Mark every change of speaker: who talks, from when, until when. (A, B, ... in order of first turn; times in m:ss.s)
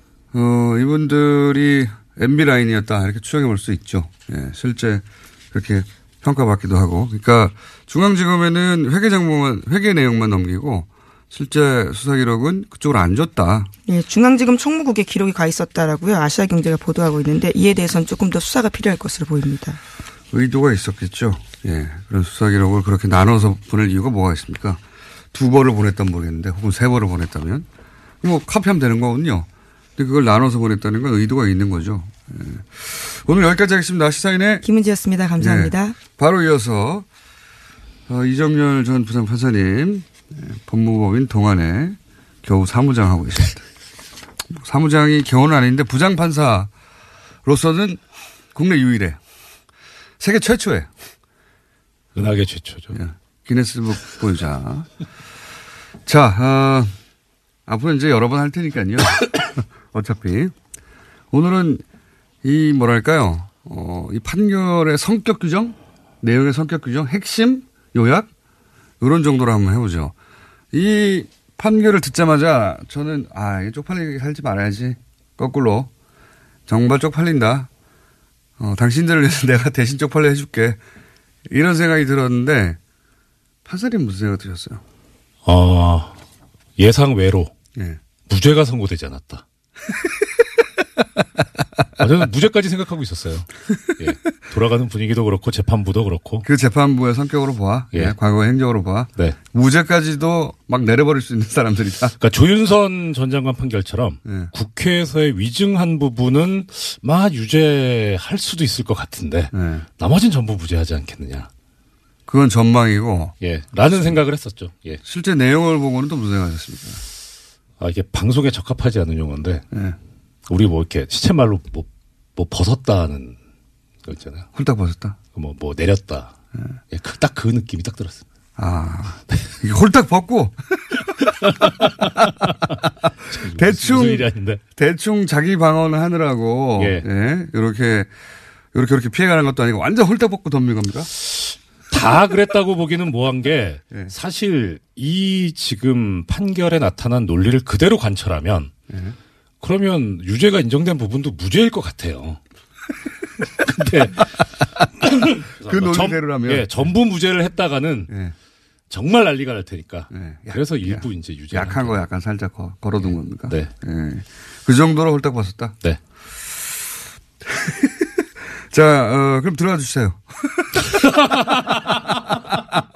0:00.3-0:13.7 A
0:13.9-0:19.8 B
0:20.3-0:24.8 A
0:25.3-0:27.6 A
0:28.2-0:34.6 A
0:34.6-0:36.0 B
0:35.4-0:37.0 A
0:38.1-0:43.6 A
0:44.5-0:46.7 A
0:47.4-0:48.0 A
0:48.5-0:49.2 A
0:50.2-0:50.9 A
0:52.2-0:53.0 C
0:52.9-0:54.9 A
0:56.0-0:56.9 A
0:57.7-1:00.5 A
1:01.3-1:01.8 A
1:02.4-1:08.3 A
1:09.0-1:10.1 A
1:10.7-1:15.9 A
1:16.7-1:17.7 A
1:18.6-1:20.8 A
1:21.5-1:22.8 A
1:23.6-1:24.8 A
1:25.4-1:26.2 C
1:26.8-1:27.5 C
1:27.7-1:28.0 A
1:28.3-1:29.4 C
1:32.0-1:36.4 C
1:36.4-1:42.1 A
1:42.2-1:51.5 C
1:44.2-1:44.5 A
1:49.5-1:49.8 A
1:52.3-1:53.3 A
1:53.4-1:55.0 C
1:55.0-1:57.0 A
1:57.8-1:59.6 C
1:59.7-2:00.0 A
2:00.5-2:03.4 C
2:04.0-2:04.5 C
2:04.5-2:05.2 A
2:05.3-2:06.3 C
2:06.9-2:08.2 C
2:08.6-2:10.6 A
2:11.4-2:14.6 C
2:13.5-2:18.1 A
2:16.8-2:17.0 C
2:18.7-2:21.1 A
2:21.2-2:28.7 C
2:28.9-2:29.2 A
2:29.6-2:32.4 C
2:33.6-2:34.5 C
2:35.0-2:38.1 C
2:35.6-2:36.8 A
2:38.1-2:38.3 A
2:38.9-2:42.0 C
2:40.1-2:45.8 A
2:43.0-2:43.7 C
2:47.4-2:51.6 A